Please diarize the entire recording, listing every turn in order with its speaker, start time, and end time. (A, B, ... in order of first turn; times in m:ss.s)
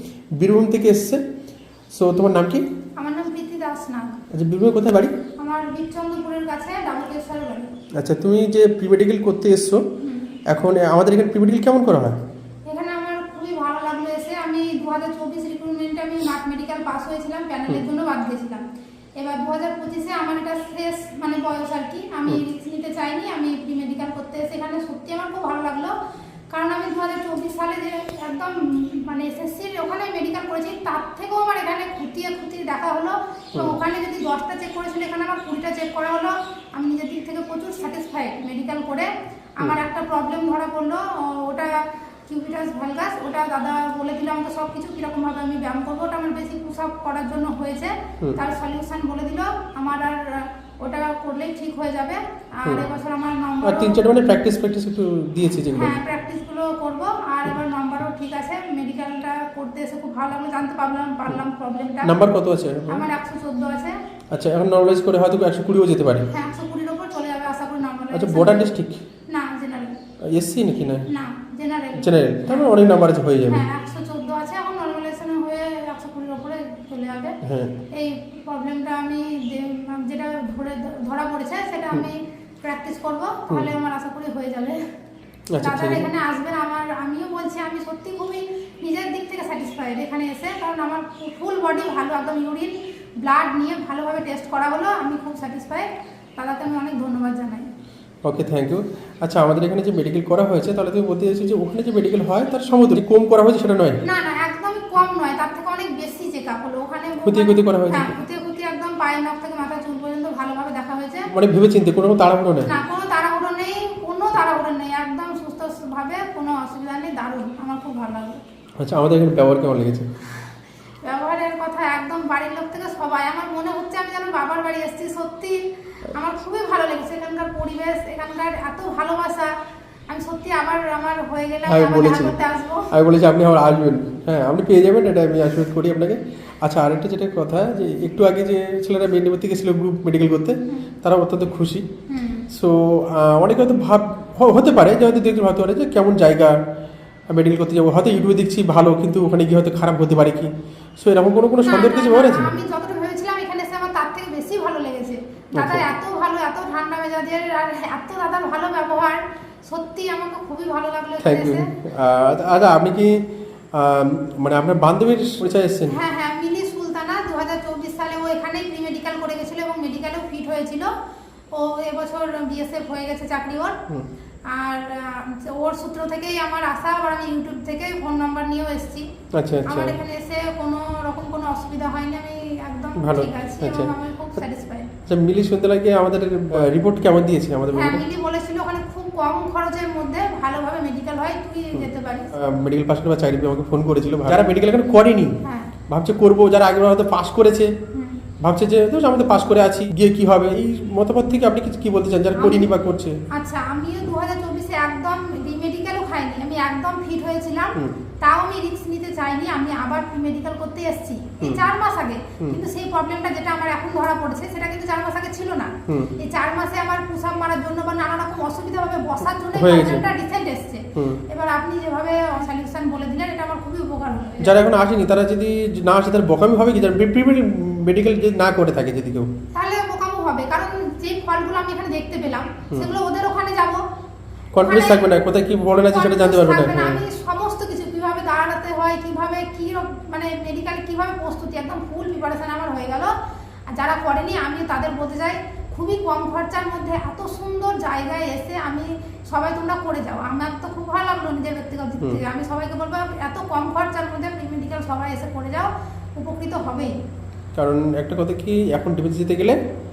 0:00.4-0:01.2 A
0:01.9-0:02.6 A
0:03.0-0:04.2 B
0:04.3-0:05.1 A
0:05.4-0:07.7 B
0:08.0-0:09.8 A
0:10.0-0:10.4 B
0:10.5-0:12.2 A
0:12.6-0:18.6 B
0:19.2-0:25.9 B
0:26.5-0:54.0 B
0:53.6-0:56.0 A
0:55.7-1:02.2 B
1:02.0-1:03.0 A
1:02.9-1:04.0 B
1:04.3-1:06.3 A
1:06.3-1:08.7 B
1:08.1-1:09.0 A
1:09.3-1:10.0 B
1:10.3-1:11.0 A
1:11.1-1:12.8 B
1:12.0-1:13.6 A
1:13.5-1:17.4 B
1:17.4-1:17.7 A
1:17.9-1:24.8 B
1:25.5-1:26.1 A
1:25.6-1:37.7 B
1:38.2-1:44.0 A
1:44.0-1:51.3 B
1:47.2-1:48.1 A
1:51.3-1:52.7 A
1:52.6-1:58.4 B
1:58.8-2:00.1 A
2:01.0-2:09.5 B
2:10.1-2:12.9 B
2:11.7-2:12.4 A
2:12.9-2:21.8 A
2:22.1-2:22.5 B
2:22.5-2:26.6 A
2:27.3-2:32.5 A
2:31.6-2:41.7 B
2:35.5-2:35.8 A
2:41.2-2:46.0 A
2:45.9-2:50.9 B
2:51.5-2:53.8 B
2:54.5-2:59.0 B
2:59.4-3:00.0 A
2:59.6-3:04.9 B
3:03.0-3:03.9 A
3:05.1-3:08.0 A
3:07.7-3:12.3 B
3:11.7-3:17.7 A
3:15.4-3:15.7 B
3:18.4-3:23.2 A
3:22.3-3:22.7 B
3:23.3-3:44.6 B
3:35.9-3:36.1 A
3:39.5-3:40.0 A
3:41.0-3:41.2 A
3:44.4-3:49.3 A
3:49.5-3:53.8 B
3:54.5-3:57.0 A
3:54.6-3:55.1 B
3:55.9-4:03.1 B
4:03.7-4:16.9 B
4:17.6-4:19.6 A